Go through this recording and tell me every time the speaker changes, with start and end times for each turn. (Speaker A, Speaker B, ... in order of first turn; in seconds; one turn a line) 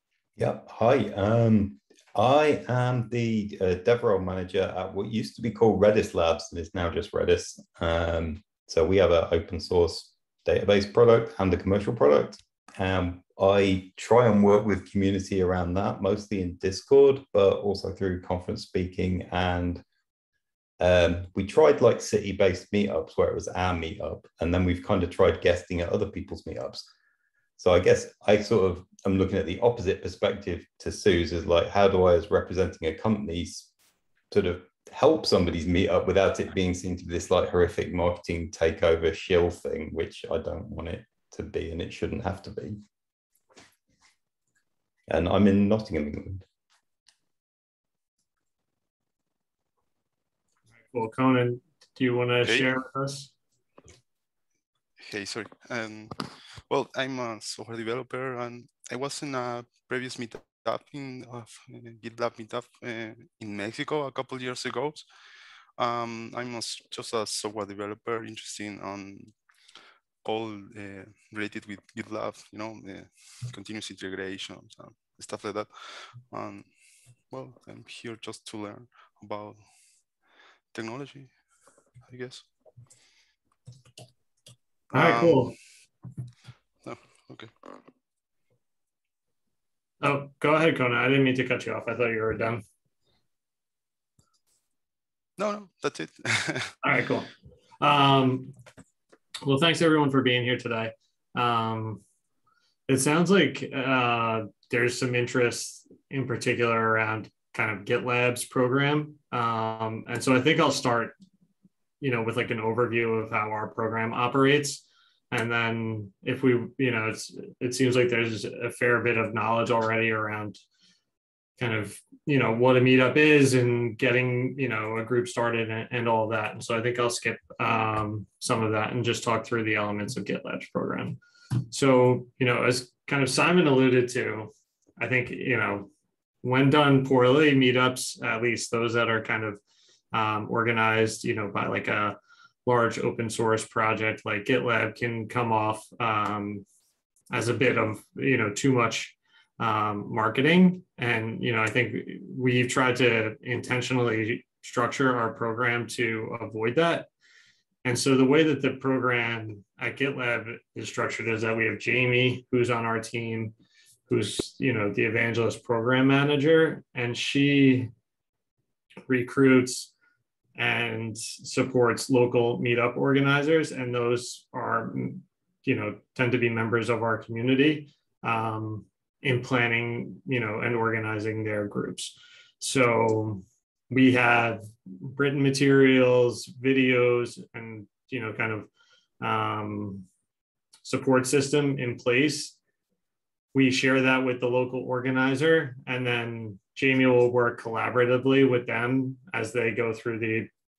Speaker A: 0.3-19.8
Speaker A: 20.8-26.9
Speaker A: 27.6-33.7
Speaker A: 34.3-42.8
Speaker A: 45.1-46.4
Speaker B: 50.9-53.3
Speaker C: 55.0-65.0
Speaker C: 65.8-69.3
Speaker C: 70.2-76.7
Speaker C: 77.3-79.7
Speaker C: 80.7-81.4
Speaker C: 82.0-82.4
Speaker C: 84.9-85.5
Speaker B: 84.9-85.5
Speaker C: 86.8-87.5
Speaker B: 90.0-92.6
Speaker C: 95.4-96.7
Speaker B: 96.8-97.3
Speaker B: 97.8-98.5
Speaker B: 99.4-102.0
Speaker B: 102.9-111.2
Speaker B: 112.0-120.6
Speaker B: 121.6-131.2
Speaker B: 131.7-135.9
Speaker B: 136.4-139.6
Speaker B: 140.1-146.6
Speaker B: 147.3-157.1
Speaker B: 157.8-163.5
Speaker B: 164.1-167.9
Speaker B: 169.1-169.9
Speaker B: 170.6-188.7
Speaker B: 189.2-190.1
Speaker B: 190.8-192.6
Speaker B: 193.5-200.5